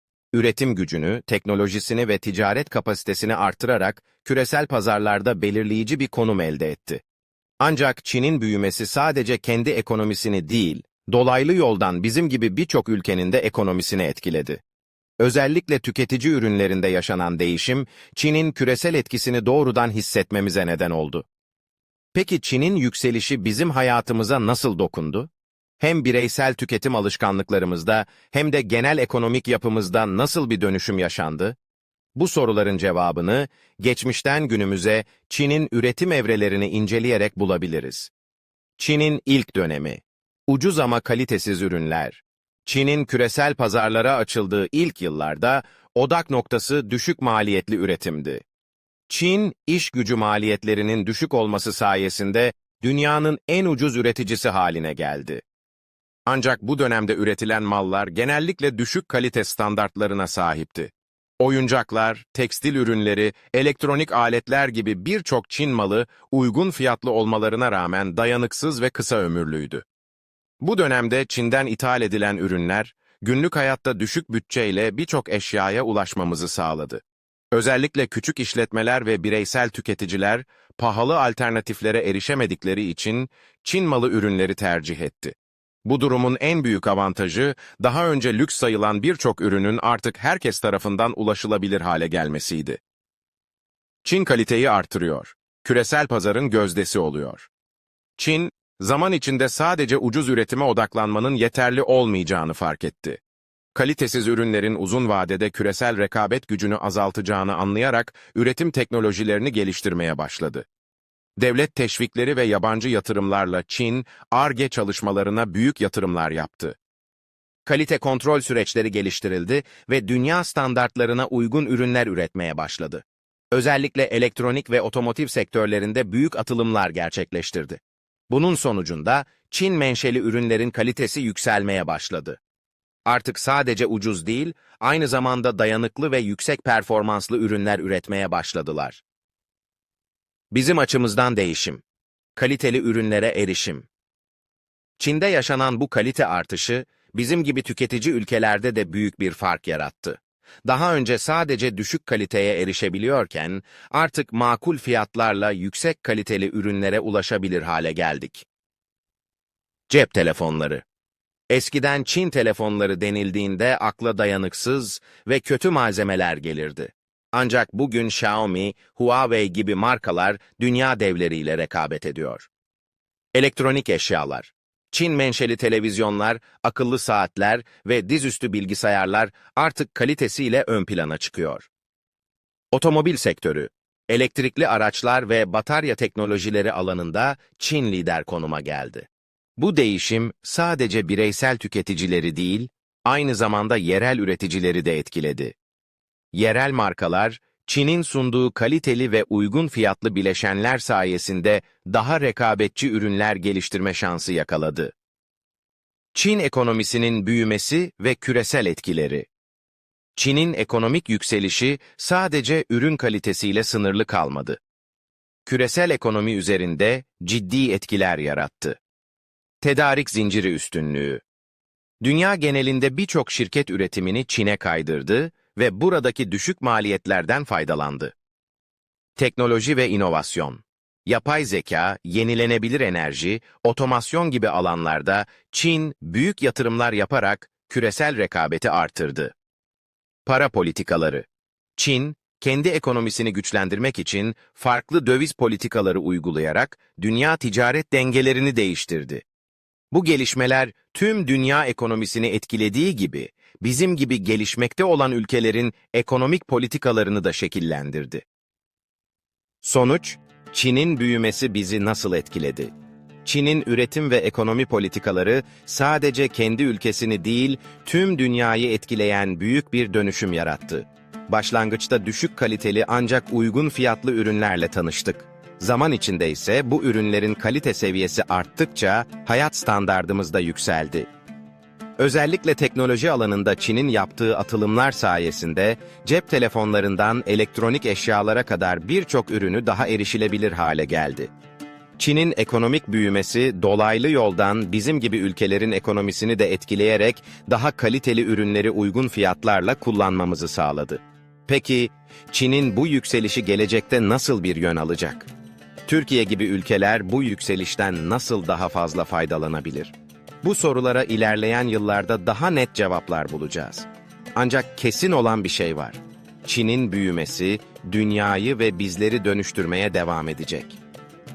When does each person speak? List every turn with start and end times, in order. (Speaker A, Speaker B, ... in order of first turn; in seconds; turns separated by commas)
Speaker A: 0.3-7.0, Speaker A: 7.6-14.6, Speaker A: 15.2-21.3, Speaker A: 22.1-31.6, Speaker A: 32.1-38.1, Speaker A: 38.8-48.4, Speaker A: 49.1-55.4, Speaker A: 56.3-69.9, Speaker A: 70.6-92.8, Speaker A: 94.0-97.5, Speaker A: 98.2-103.2, Speaker A: 103.7-110.7, Speaker A: 111.4-116.8, Speaker A: 117.7-132.4, Speaker A: 133.1-139.0, Speaker A: 140.5-141.8, Speaker A: 142.4-143.9, Speaker A: 145.0-158.5, Speaker A: 159.9-160.8, Speaker A: 161.5-172.5, Speaker A: 173.3-181.7, Speaker A: 182.7-195.6, Speaker A: 196.3-204.9, Speaker A: 206.1-209.3, Speaker A: 210.2-214.6, Speaker A: 215.4-218.8, Speaker A: 219.6-221.2, Speaker A: 222.0-228.1, Speaker A: 229.2-239.3, Speaker A: 240.3-249.2, Speaker A: 249.9-258.3, Speaker A: 259.6-262.7, Speaker A: 263.2-281.1, Speaker A: 282.0-291.3, Speaker A: 292.0-305.3, Speaker A: 305.9-320.8